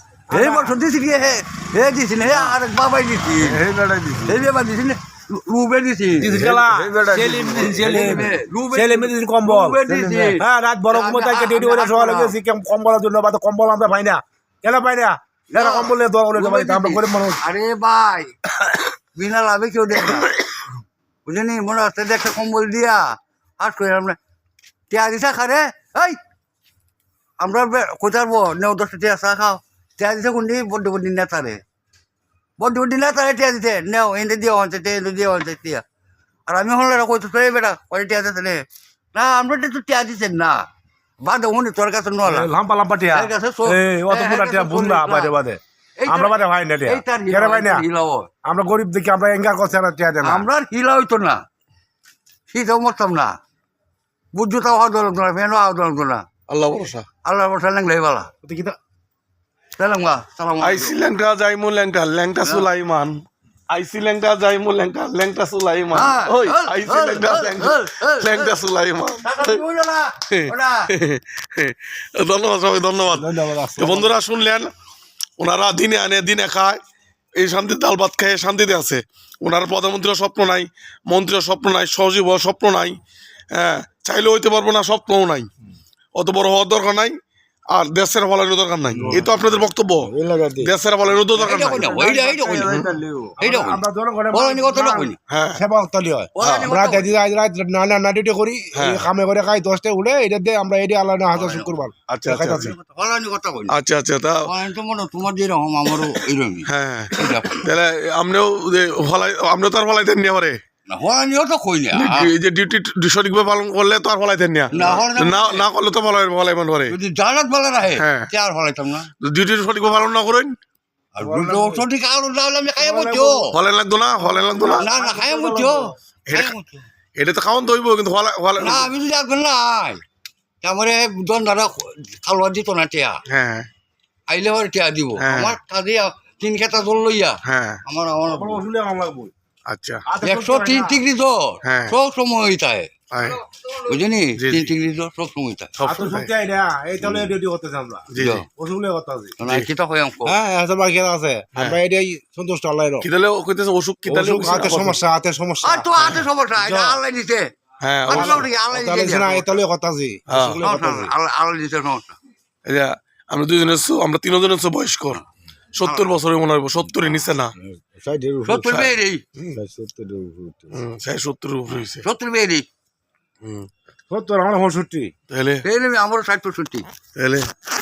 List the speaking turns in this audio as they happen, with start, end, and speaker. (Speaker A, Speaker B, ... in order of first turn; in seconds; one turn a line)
Speaker A: 0.3-0.8
Speaker B: 0.3-3.6
Speaker A: 2.3-2.5
Speaker C: 3.4-4.4
Speaker B: 4.2-6.4
Speaker A: 6.2-9.8
Speaker C: 6.3-8.3
Speaker B: 7.5-12.3
Speaker C: 9.9-10.3
Speaker A: 10.4-17.4
Speaker B: 15.5-18.3
Speaker B: 19.1-20.3
Speaker B: 21.2-24.2
Speaker B: 24.9-26.2
Speaker B: 27.4-31.6
Speaker B: 32.6-35.8
Speaker B: 36.5-38.6
Speaker B: 39.1-40.6
Speaker B: 41.2-42.5
Speaker A: 42.2-47.8
Speaker B: 43.1-45.3
Speaker B: 46.0-48.3
Speaker A: 48.4-50.5
Speaker B: 50.2-51.4
Speaker B: 52.5-53.4
Speaker B: 54.3-56.2
Speaker D: 56.5-57.0
Speaker B: 57.2-58.3
Speaker A: 58.4-58.8
Speaker B: 59.8-60.9
Speaker D: 60.6-69.6
Speaker B: 65.9-68.5
Speaker B: 69.2-70.9
Speaker D: 70.3-74.7
Speaker A: 73.1-74.2
Speaker D: 75.4-76.8
Speaker D: 77.4-83.0
Speaker D: 83.5-85.5
Speaker D: 86.1-87.2
Speaker D: 87.7-90.1
Speaker C: 89.0-89.3
Speaker C: 90.0-90.7
Speaker D: 90.6-91.9
Speaker B: 91.3-92.8
Speaker C: 91.5-93.3
Speaker A: 93.4-102.7
Speaker B: 93.4-95.2
Speaker D: 95.3-95.6
Speaker B: 96.3-97.1
Speaker D: 96.4-96.7
Speaker D: 98.7-99.1
Speaker B: 101.3-101.8
Speaker D: 102.1-102.7
Speaker B: 102.5-103.7
Speaker D: 103.7-104.5
Speaker B: 104.5-107.7
Speaker D: 106.7-110.6
Speaker B: 110.9-112.3
Speaker D: 111.9-116.9
Speaker B: 114.7-115.6
Speaker B: 116.9-119.1
Speaker D: 118.0-118.3
Speaker D: 119.2-120.5
Speaker B: 121.1-123.5
Speaker A: 121.2-121.9
Speaker A: 122.8-123.5
Speaker D: 123.5-124.8
Speaker A: 124.2-125.9
Speaker B: 124.8-126.8
Speaker D: 126.3-126.5
Speaker D: 127.2-128.9
Speaker B: 128.6-130.0
Speaker B: 130.6-133.2
Speaker D: 133.3-133.7
Speaker B: 134.3-138.6
Speaker D: 135.2-135.6
Speaker D: 137.4-137.8
Speaker A: 138.3-139.3
Speaker D: 139.7-140.0
Speaker A: 140.1-141.0
Speaker B: 140.2-142.9
Speaker D: 141.6-141.9
Speaker D: 143.1-143.4
Speaker B: 143.8-145.7
Speaker D: 144.4-144.7
Speaker D: 145.8-146.3
Speaker A: 145.9-149.3
Speaker D: 148.1-148.4
Speaker B: 148.1-148.4
Speaker B: 149.4-150.3
Speaker A: 150.3-153.1
Speaker D: 153.0-155.0
Speaker A: 154.1-157.0
Speaker B: 155.6-157.5
Speaker D: 157.8-158.5
Speaker B: 158.1-159.5
Speaker A: 158.1-161.1
Speaker D: 160.3-160.6
Speaker B: 160.6-162.2
Speaker D: 162.6-165.2
Speaker D: 165.7-167.5
Speaker C: 167.6-168.7
Speaker B: 168.4-169.2
Speaker D: 168.6-169.5
Speaker C: 169.5-170.7
Speaker D: 170.7-172.0
Speaker B: 172.0-172.6
Speaker D: 173.4-173.7
Speaker A: 174.1-175.1
Speaker D: 175.3-175.6
Speaker B: 175.6-176.9
Speaker D: 177.2-177.5